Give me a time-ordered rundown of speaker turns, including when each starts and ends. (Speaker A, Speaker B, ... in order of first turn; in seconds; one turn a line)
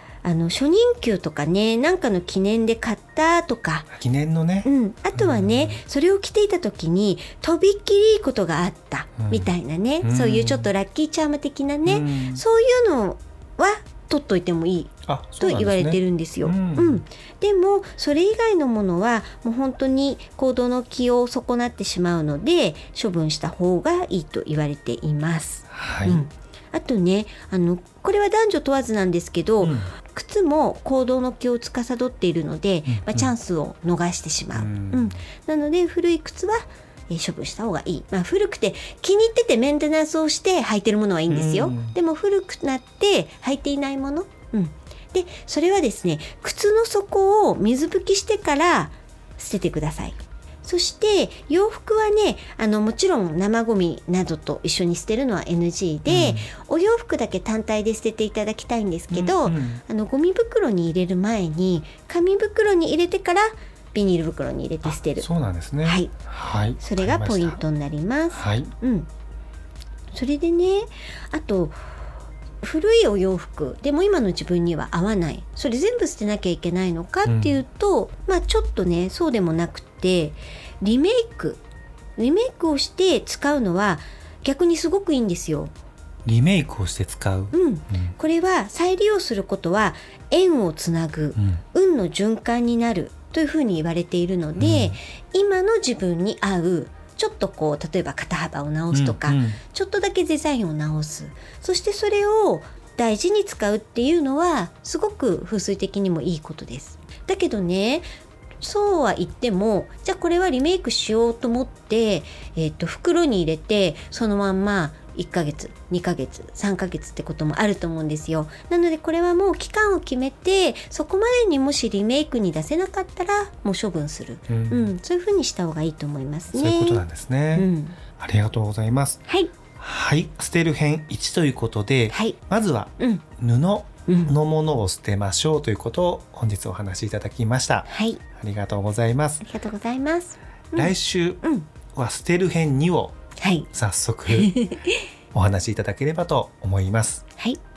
Speaker A: 0.2-3.9
Speaker B: 3.9-5.8
Speaker A: 4.7-65.3
Speaker B: 9.2-10.7
Speaker B: 11.9-12.4
Speaker B: 15.1-17.0
Speaker B: 25.7-26.2
Speaker B: 29.6-29.9
Speaker B: 32.9-33.3
Speaker B: 34.5-35.1
Speaker B: 41.3-42.0
Speaker B: 56.1-56.5
Speaker B: 59.1-59.8
Speaker B: 64.8-67.6
Speaker A: 65.8-66.1
Speaker A: 66.8-69.1
Speaker B: 68.3-68.7
Speaker A: 70.1-71.8
Speaker A: 72.6-81.6
Speaker B: 77.2-77.6
Speaker A: 82.2-85.7
Speaker B: 86.2-88.1
Speaker A: 87.5-108.1
Speaker B: 94.6-95.0
Speaker B: 98.9-99.6
Speaker A: 108.6-128.0
Speaker B: 124.5-124.9
Speaker B: 126.5-127.7
Speaker B: 128.2-129.2
Speaker A: 129.3-129.5
Speaker B: 129.8-139.5
Speaker A: 132.1-132.4
Speaker A: 133.0-133.2
Speaker A: 134.1-134.3
Speaker A: 137.9-138.2
Speaker A: 139.4-141.7
Speaker B: 140.8-141.4
Speaker B: 141.9-143.2
Speaker A: 143.4-143.7
Speaker B: 143.7-144.5
Speaker A: 144.3-145.0
Speaker B: 145.3-147.2